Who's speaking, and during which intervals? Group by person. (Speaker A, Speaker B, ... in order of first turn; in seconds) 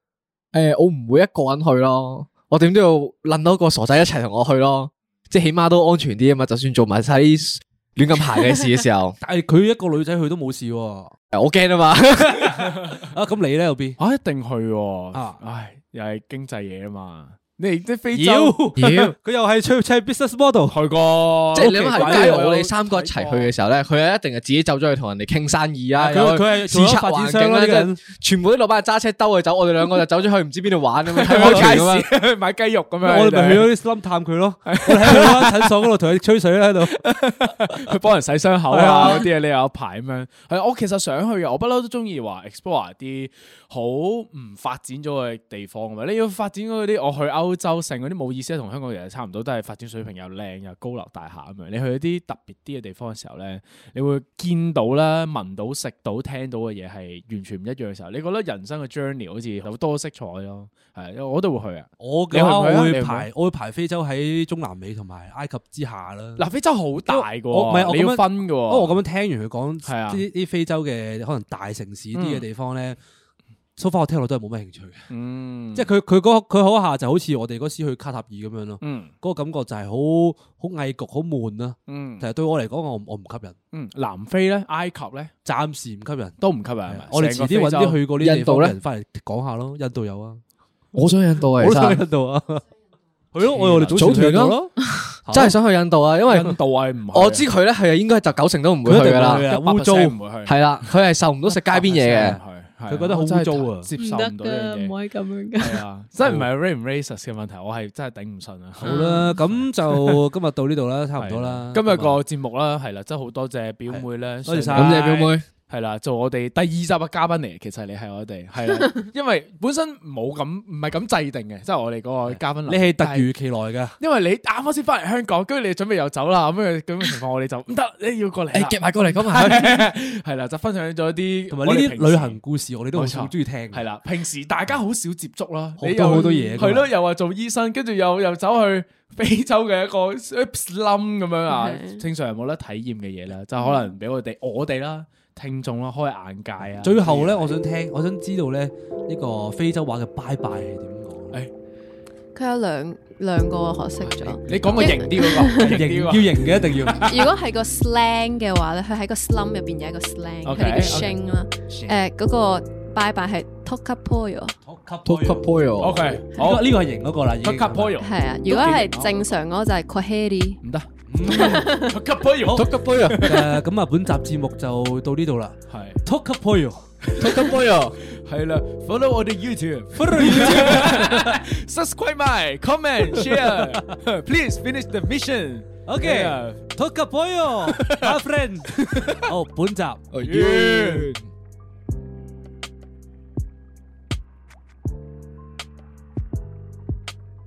Speaker A: 0.5-9.2, 11.3-12.5, 18.8-19.1, 21.5-32.1, 88.2-88.7, 91.0-92.0, 93.9-94.6, 95.3-96.6, 97.1-99.4, 100.5-102.4, 114.8-115.5, 128.5-129.8, 165.1-166.2, 172.5-173.3, 177.2-178.0, 190.1-191.3
Speaker B: 9.2-11.2, 12.3-14.0, 15.1-15.4, 18.1-20.8, 21.5-22.6, 26.0-28.0, 31.4-31.8, 33.0-38.0, 38.7-39.3, 62.0-66.4, 67.1-73.0, 73.8-75.1, 75.8-83.6, 85.5-86.4, 86.9-90.4, 91.4-92.7, 93.3-95.6, 98.8-100.2, 102.2-103.9, 106.2-106.5, 108.8-112.2, 113.9-115.1, 122.3-124.0, 129.3-129.7, 131.5-133.8, 135.8-136.9, 146.8-151.4, 155.6-157.1, 164.7-165.6, 166.3-168.0, 171.1-171.8, 172.4-176.9, 179.9-181.4, 183.1-183.8, 185.9-190.1
Speaker C: 14.0-18.6, 20.7-23.5, 31.2-33.7, 34.7-35.9, 36.9-63.3, 66.4-69.0, 69.8-70.2, 72.2-72.5, 75.1-75.9, 78.8-79.1, 81.9-82.3, 83.7-85.3, 86.4-88.0, 93.4-94.3, 96.3-97.5, 99.4-100.9, 101.5-104.9, 105.6-110.2, 111.2-123.3, 124.0-132.4, 132.9-147.6, 154.1-157.3, 160.4-161.2, 165.8-166.8, 167.4-169.3, 170.6-173.6, 175.7-176.0, 177.0-186.6, 187.7-188.2, 188.8-189.2, 190.2-191.1
Speaker D: 104.0-105.8, 108.8-109.3, 136.1-136.7, 141.5-142.0, 143.6-143.9, 152.3-155.7, 157.0-164.6, 168.0-170.6, 171.3-171.9